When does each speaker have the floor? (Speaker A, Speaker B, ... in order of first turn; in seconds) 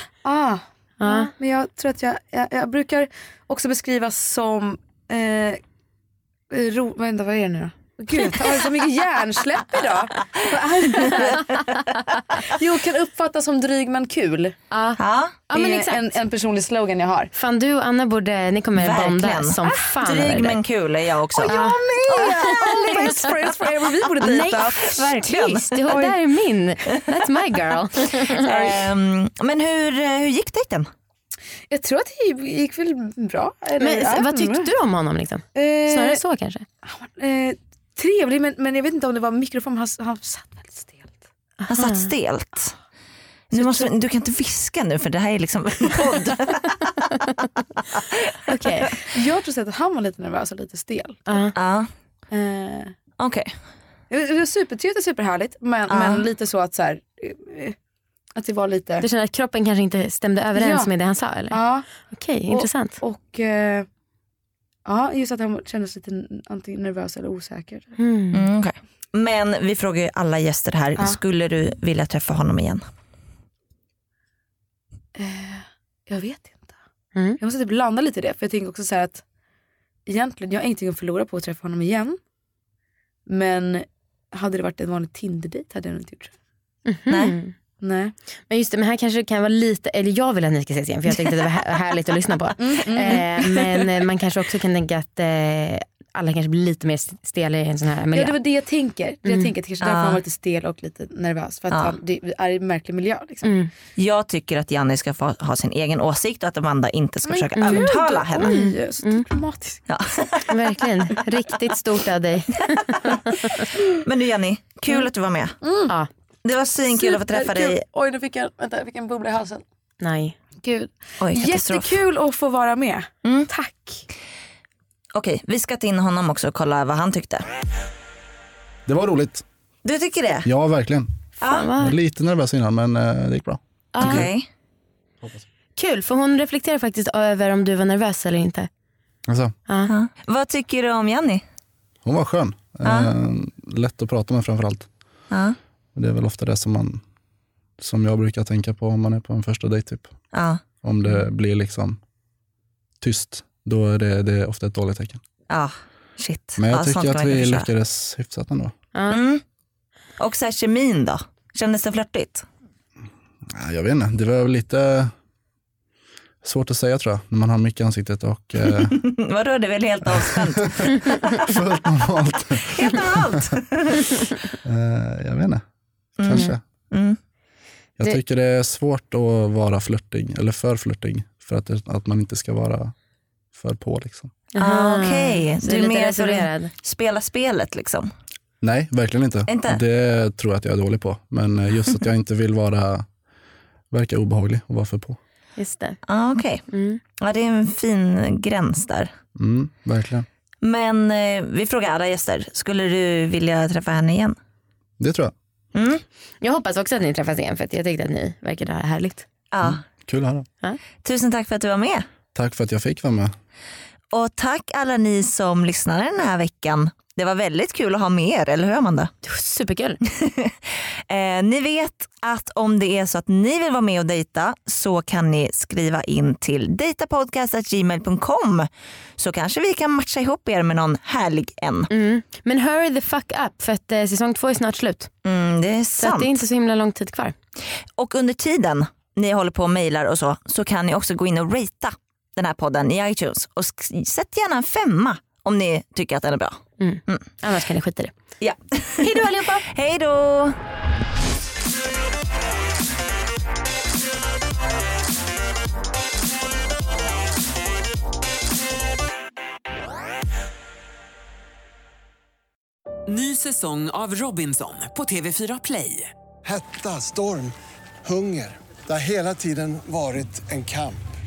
Speaker A: 0.2-5.6, 6.5-11.6, 12.3-14.6, 15.5-17.3, 21.4-25.3, 25.9-26.2, 31.7-34.7, 35.5-36.2, 36.8-41.2, 43.5-43.9, 49.0-51.2, 52.3-52.9, 54.1-57.8, 58.4-59.0, 60.5-60.9, 61.5-61.9, 62.5-63.9, 64.8-68.0, 75.2-76.7, 77.4-79.2, 80.1-82.2, 83.3-86.3, 87.8-88.1, 92.6-93.8, 98.1-103.5, 107.3-109.8, 115.6-115.9, 116.9-119.6, 120.6-124.0
Speaker B: 1.0-1.3, 14.7-16.1, 17.3-20.6, 21.4-23.1, 24.2-28.7, 33.8-36.6, 41.6-42.1, 47.0-47.3, 48.5-49.0, 51.3-51.5, 59.0-61.6, 62.1-63.0, 68.0-68.4, 77.1-77.4, 86.9-87.5, 88.5-98.4, 103.4-103.7, 107.6-107.9, 108.4-109.2, 110.5-113.7, 120.0-120.3, 131.5-131.9, 133.9-134.3, 135.8-138.7, 184.5-186.7, 195.6-196.0, 196.7-197.0, 206.4-209.2, 219.2-220.0, 231.9-235.1, 236.0-237.3, 246.8-248.1, 249.0-249.6
Speaker C: 10.9-11.7, 15.0-15.4, 18.8-23.3, 24.2-25.7, 28.1-30.9, 41.7-42.7, 43.5-46.9, 51.5-51.9, 53.2-53.5, 55.9-56.2, 68.3-72.8, 87.1-87.3, 99.8-100.2, 101.7-102.0, 104.0-108.6, 109.9-110.5, 112.9-115.6, 116.4-117.8, 121.2-121.9, 125.1-127.5, 129.8-130.5, 131.4-131.7, 134.0-134.5, 139.9-141.4, 142.8-143.1, 145.3-145.6, 150.3-150.6, 155.5-157.7, 159.1-159.4, 160.2-162.4, 168.7-171.2, 172.6-174.2, 176.2-177.2, 184.6-188.1, 189.5-189.8, 196.1-196.6, 197.2-199.1, 200.6-204.4, 205.7-206.0, 209.5-209.8, 211.0-212.1, 214.1-219.1, 220.1-231.9, 235.2-236.3, 238.0-247.2, 248.4-250.6
Speaker D: 128.8-129.4, 130.4-131.1, 131.8-134.3, 139.3-139.5, 142.0-144.9, 145.9-147.0, 147.8-150.1, 150.8-152.0, 153.0-155.2, 156.6-158.7, 163.5-165.1, 166.4-169.0, 170.0-173.6, 174.6-175.6, 176.2-176.6, 178.0-182.9, 183.5-184.3, 188.6-193.1, 193.9-195.2, 199.3-200.3, 205.0-205.3, 209.6-210.5, 212.3-213.3
Speaker E: 263.1-266.1
Speaker F: 266.4-271.0